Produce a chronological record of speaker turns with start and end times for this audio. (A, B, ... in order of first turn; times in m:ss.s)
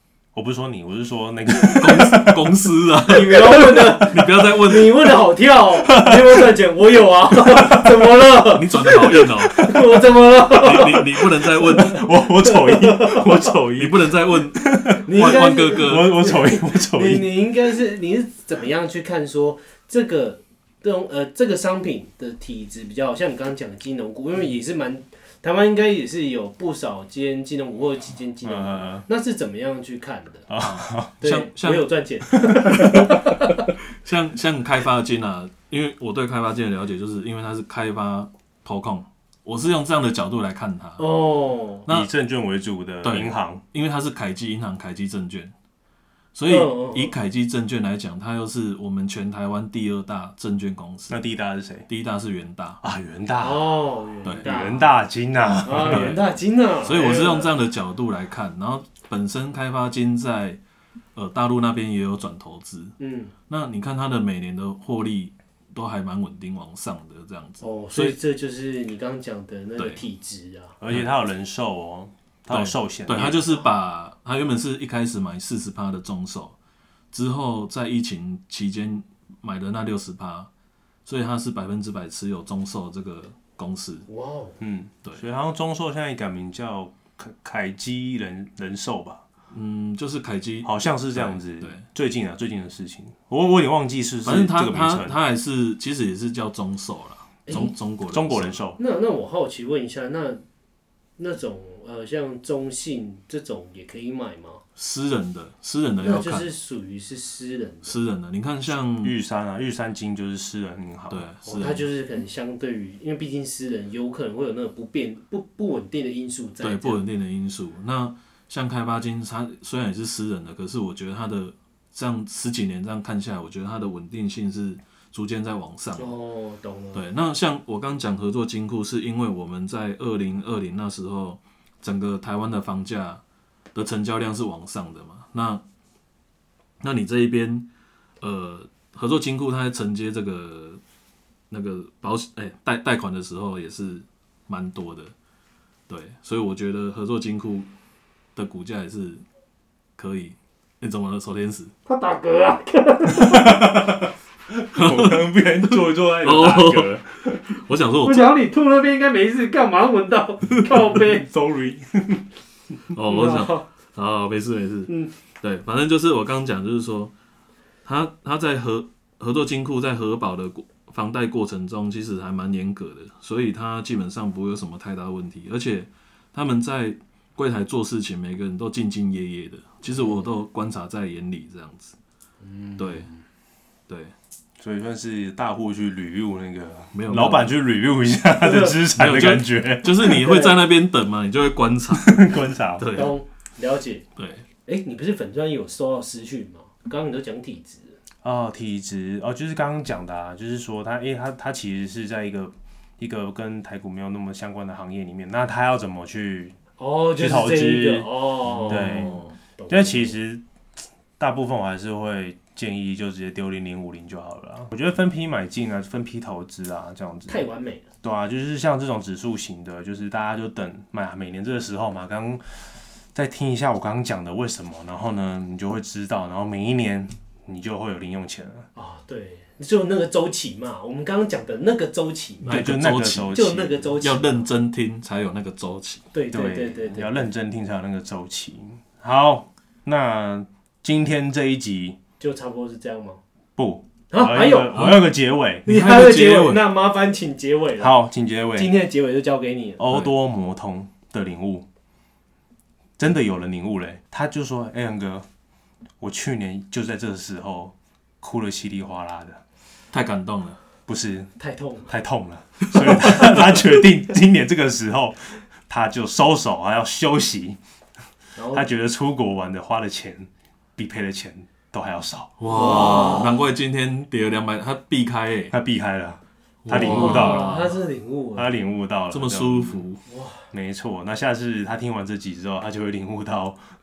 0:00.3-0:02.6 A
0:01.6-0:05.2 B
0:03.0-0:13.6 C
0:05.8-0:06.5 A
0:08.5-0:09.6 B
0:09.4-0:09.7 A
0:10.5-0:12.0 B
0:11.6-0:17.4 A
0:13.7-0:16.3 B
0:15.0-0:30.5 C
0:28.4-0:29.0 A
0:30.5-0:31.2 A
0:30.6-0:31.9 B
0:31.2-0:33.6 C
0:32.4-0:33.1 A
0:32.8-0:33.2 B
0:34.0-0:41.0 B
0:41.0-0:41.9 C
0:41.9-0:43.6 A
0:43.0-0:45.5 B
0:46.3-0:51.2 B
0:46.5-0:47.2 C
0:51.1-0:51.9 A
0:51.9-0:52.8 B
0:52.8-0:56.2 A
0:53.4-0:54.9 C
0:54.2-0:54.5 B
0:55.6-0:57.5 C
0:55.8-0:56.2 B
0:56.8-1:00.6 B
1:01.2-1:02.9 B
1:03.0-1:03.3 C
1:03.5-1:08.2 B
1:07.6-1:10.8 C
1:09.8-1:10.0 B
1:10.8-1:13.4 A
1:12.5-1:16.5 B
1:17.1-1:20.5 B
1:21.0-1:24.1 B
1:24.1-1:24.6 C
1:24.6-1:29.2 A
1:29.5-1:31.8 B
1:30.6-1:35.2 A
1:34.2-1:38.6 B
1:37.5-1:37.8 C
1:38.1-1:38.8 A
1:38.8-1:40.4 C
1:41.2-1:44.6 C
1:44.8-1:46.5 B
1:46.0-1:48.0 C
1:47.8-1:49.2 B
1:48.9-1:51.3 A
1:51.1-1:51.9 B
1:51.4-1:57.0 C
1:56.6-2:06.1 B
2:06.0-2:07.0 C
2:06.9-2:13.2 B
2:13.7-2:15.6 B
2:16.8-2:17.7 B
2:18.2-2:20.8 B
2:21.5-2:25.1 B
2:25.9-2:27.7 B
2:28.4-2:29.2 B
2:30.0-2:31.7 B
2:31.8-2:33.7 C
2:33.1-2:37.4 A
2:34.7-2:38.3 B
2:38.0-2:41.3 C
2:40.6-2:42.2 A
2:42.9-2:47.1 B
2:43.1-2:43.6 C
2:47.8-3:01.9 B
3:02.4-3:03.1 C
3:02.8-3:03.1 B
3:04.6-3:10.3 A
3:06.9-3:07.5 B
3:08.4-3:08.7 C
3:08.9-3:13.2 B
3:10.0-3:10.6 C
3:11.9-3:12.9 A
3:12.9-3:14.0 C
3:14.2-3:14.4 B
3:14.6-3:18.0 C
3:18.2-3:26.6 A
3:26.8-3:30.2 C
3:27.2-3:28.1 A
3:28.4-3:29.4 B
3:28.6-3:30.4 A
3:31.2-3:37.5 A
3:37.3-3:37.8 C
3:38.0-3:42.4 A
3:43.1-3:48.7 A
3:48.7-3:52.7 C
3:52.4-3:53.4 B
3:52.5-3:53.8 A
3:53.3-3:54.4 C
3:54.0-3:56.0 B
3:56.1-3:57.3 C
3:56.3-4:02.0 A
4:02.2-4:03.2 C
4:03.6-4:05.7 A
4:04.1-4:05.0 C
4:05.6-4:07.9 C
4:05.7-4:06.6 B
4:07.8-4:08.7 A
4:08.6-4:09.8 C
4:09.8-4:11.6 A
4:13.0-4:15.3 A
4:16.0-4:19.4 A
4:19.9-4:20.6 B
4:20.9-4:21.3 A
4:21.4-4:21.9 C
4:21.9-4:27.6 A
4:22.8-4:23.4 B
4:28.4-4:28.7 C
4:28.5-4:33.1 A
4:32.4-4:35.5 B
4:32.5-4:33.4 C
4:35.5-4:37.6 A
4:36.6-4:37.8 B
4:36.7-4:38.5 C
4:38.4-4:39.8 A
4:39.1-4:40.0 B
4:40.0-4:40.4 C
4:40.5-4:43.6 A